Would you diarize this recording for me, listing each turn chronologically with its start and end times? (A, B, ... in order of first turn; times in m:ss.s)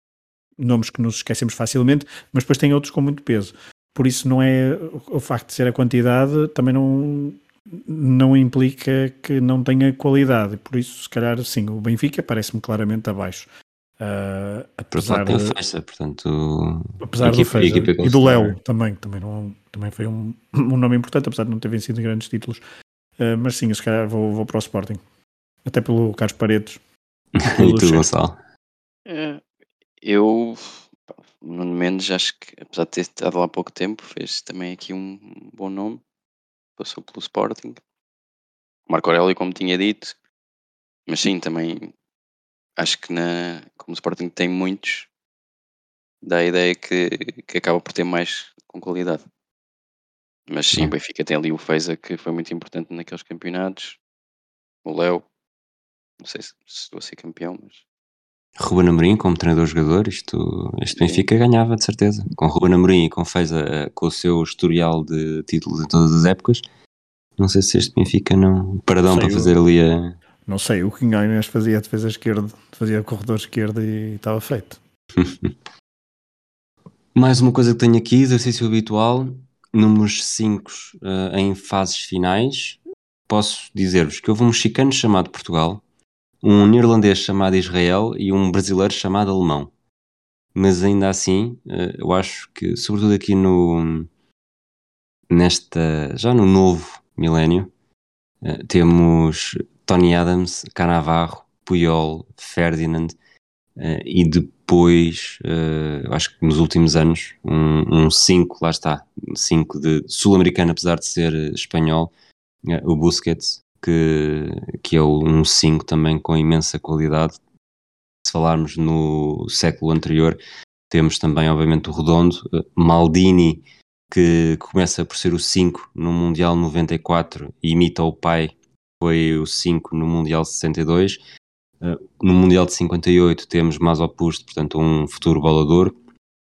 0:00.6-0:13.5 A
0:14.0-0:15.6 A
0:14.9-0:18.6 B
0:17.0-0:22.6 A
0:23.2-0:25.0 A
0:25.6-0:26.8 A
0:27.3-0:28.4 B
0:27.4-0:28.0 A
0:29.0-0:29.4 C
0:30.0-0:36.0 C
0:36.8-0:37.8 C
0:38.9-0:40.1 C
0:41.1-0:41.9 C
0:42.8-0:45.1 C
0:46.2-0:49.2 C
0:50.5-0:54.0 C
0:54.8-0:55.2 C
0:56.2-0:57.8 C
0:58.6-1:06.6 B
1:00.9-1:01.2 C
1:07.4-1:10.2 B
1:09.1-1:09.5 A
1:10.5-1:14.8 A
1:15.1-1:15.5 B
1:17.1-1:25.8 B
1:26.4-1:29.7 B
1:30.5-1:34.1 B
1:35.3-1:37.7 B
1:38.4-1:43.1 B
1:43.8-1:52.1 B
1:52.6-1:57.4 B
1:58.2-2:00.4 B
2:00.9-2:11.2 B
2:11.8-2:15.9 B